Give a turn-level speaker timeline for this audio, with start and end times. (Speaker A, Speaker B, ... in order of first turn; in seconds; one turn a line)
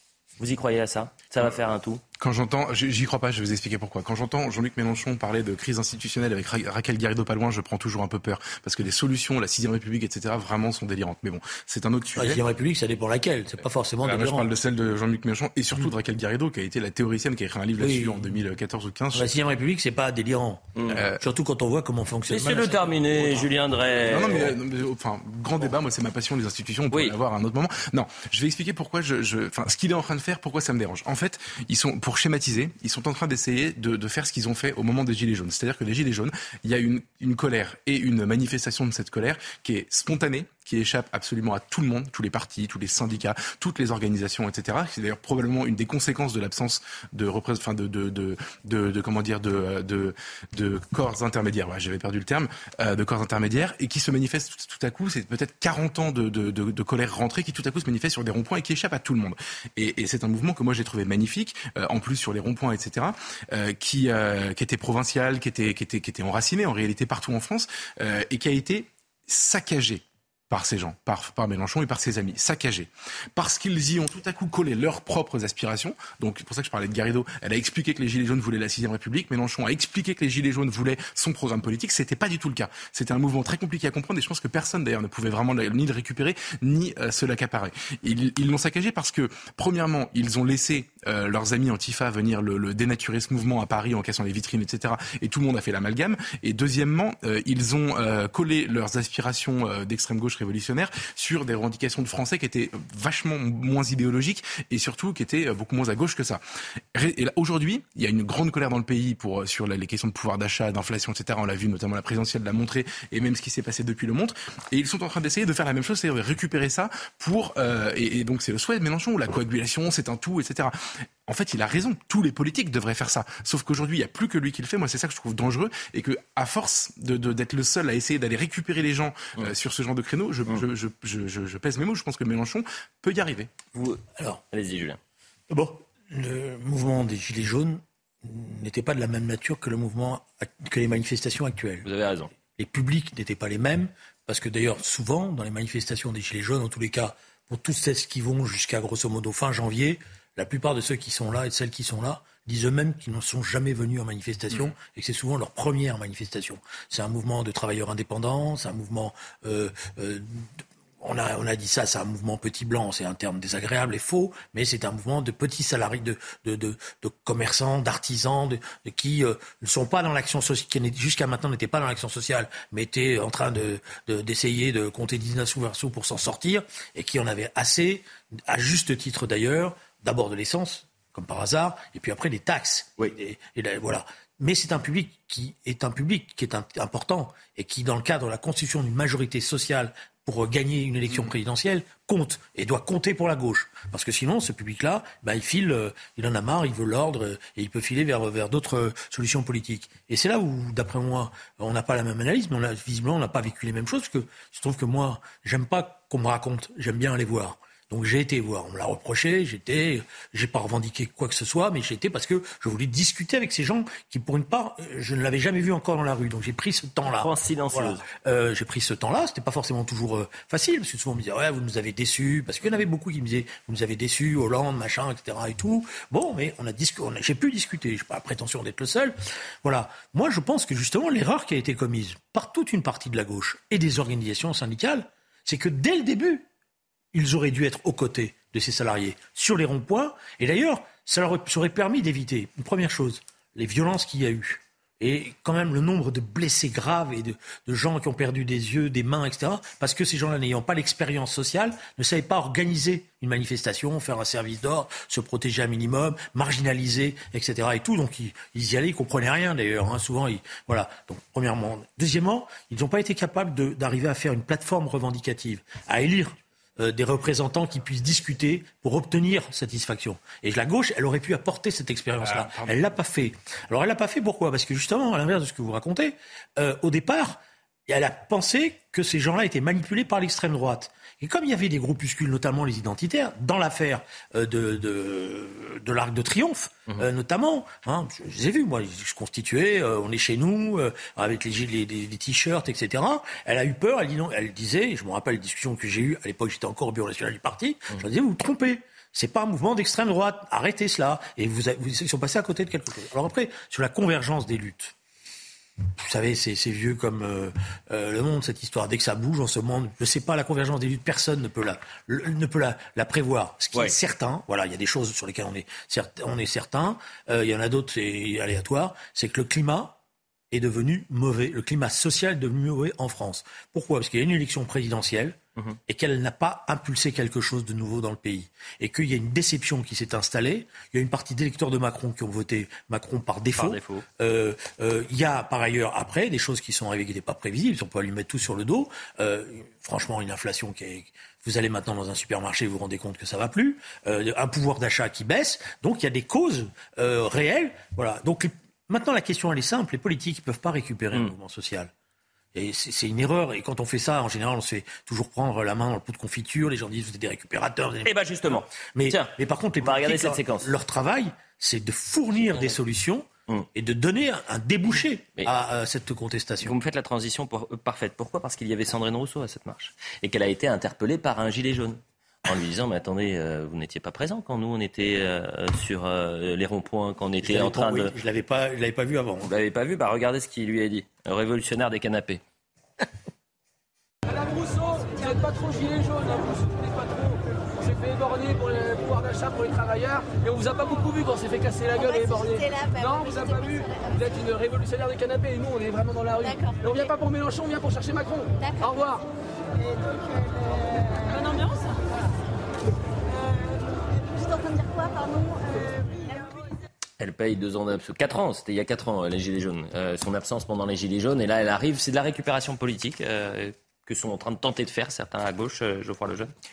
Speaker A: 0.4-2.0
Speaker B: 2.2-12.4
Speaker C: 12.2-14.5
Speaker B: 14.0-19.3
Speaker C: 17.8-18.4
Speaker C: 19.1-20.6
Speaker A: 20.8-21.1
Speaker B: 20.9-21.2
Speaker C: 21.2-23.5
Speaker A: 22.3-24.6
Speaker B: 24.1-106.4
Speaker B: 106.9-120.8
Speaker B: 121.3-133.5
Speaker A: 133.7-135.0
Speaker C: 135.5-141.9
Speaker A: 141.8-142.3
Speaker C: 142.6-236.5
Speaker A: 217.1-218.0
Speaker C: 237.1-304.9
Speaker B: 272.2-272.8
Speaker C: 306.0-320.0
Speaker C: 320.5-351.9
Speaker A: 333.6-334.1
Speaker C: 352.6-366.8
Speaker A: 358.1-360.7
Speaker A: 366.6-378.1
Speaker C: 377.4-379.5
Speaker A: 379.4-382.4
Speaker D: 384.3-399.3
Speaker E: 391.9-394.3
Speaker E: 396.4-397.1
Speaker E: 398.6-398.9
Speaker E: 401.2-401.9
Speaker E: 404.2-406.6
Speaker A: 407.2-416.5